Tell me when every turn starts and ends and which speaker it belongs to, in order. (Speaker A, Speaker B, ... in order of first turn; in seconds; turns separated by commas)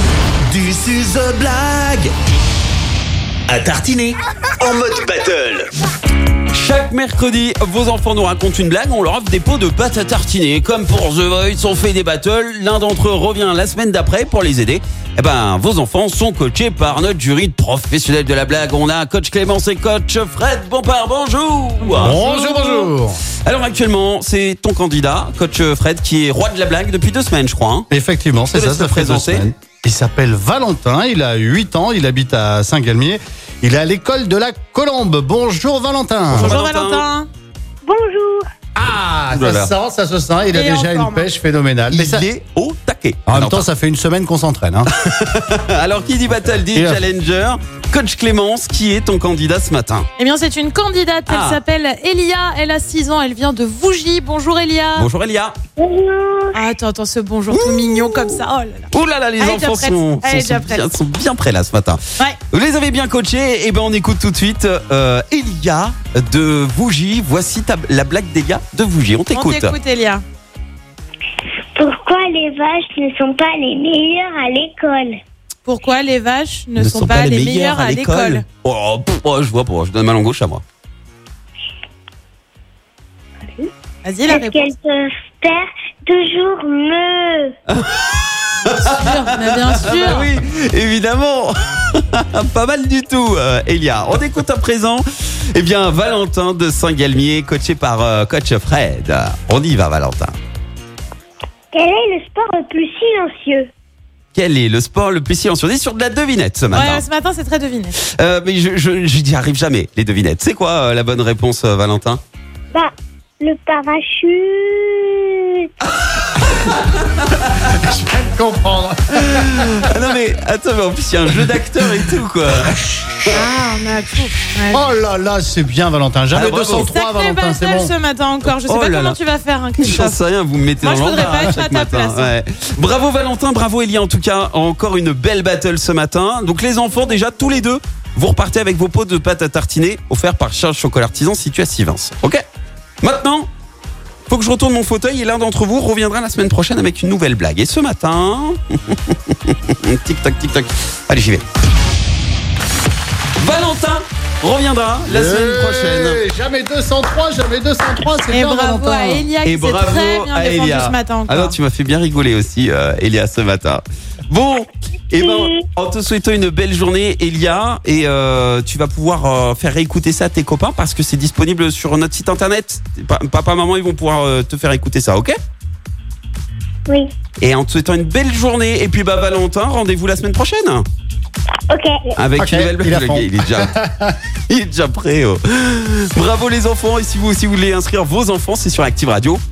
Speaker A: 0.5-2.1, Speaker A: 3.5-5.7, Speaker B: 6.5-27.9, Speaker C: 21.9-23.2, Speaker C: 27.9-36.5, Speaker B: 28.5-29.5, Speaker B: 36.3-37.0, Speaker D: 36.5-37.3, Speaker E: 37.8-38.5, Speaker C: 38.8-42.3, Speaker B: 39.3-39.7, Speaker D: 40.6-41.2, Speaker B: 41.9-43.7, Speaker C: 43.3-45.0, Speaker B: 45.0-50.1, Speaker C: 46.7-47.1, Speaker D: 50.2-55.1, Speaker B: 51.3-51.6, Speaker B: 55.0-55.5, Speaker E: 55.8-56.6, Speaker D: 56.5-60.9, Speaker B: 57.5-58.4, Speaker B: 58.9-69.8, Speaker D: 69.3-70.2, Speaker E: 71.8-75.2, Speaker D: 75.7-78.4, Speaker B: 76.8-80.6, Speaker E: 83.4-83.7, Speaker D: 84.0-84.7, Speaker E: 84.3-87.5, Speaker B: 87.7-100.4, Speaker D: 88.8-90.3, Speaker E: 101.7-103.7, Speaker B: 104.3-107.0, Speaker D: 106.7-107.9, Speaker B: 108.0-112.2, Speaker E: 112.7-115.7, Speaker B: 116.4-117.6, Speaker C: 117.7-120.1, Speaker B: 119.2-123.4, Speaker C: 121.6-122.1, Speaker D: 123.3-124.7, Speaker C: 124.7-127.9, Speaker B: 126.3-126.9, Speaker D: 127.3-130.2, Speaker B: 128.5-129.2, Speaker B: 129.8-142.4, Speaker D: 130.8-132.3, Speaker B: 143.0-143.5, Speaker B: 144.3-151.4, Speaker B: 153.4-156.2, Speaker C: 155.1-159.3, Speaker D: 158.3-161.6, Speaker B: 159.4-175.3, Speaker E: 165.2-165.6, Speaker B: 177.4-180.8, Speaker E: 181.7-182.1, Speaker B: 182.2-183.7, Speaker C: 182.4-184.2, Speaker B: 184.5-189.4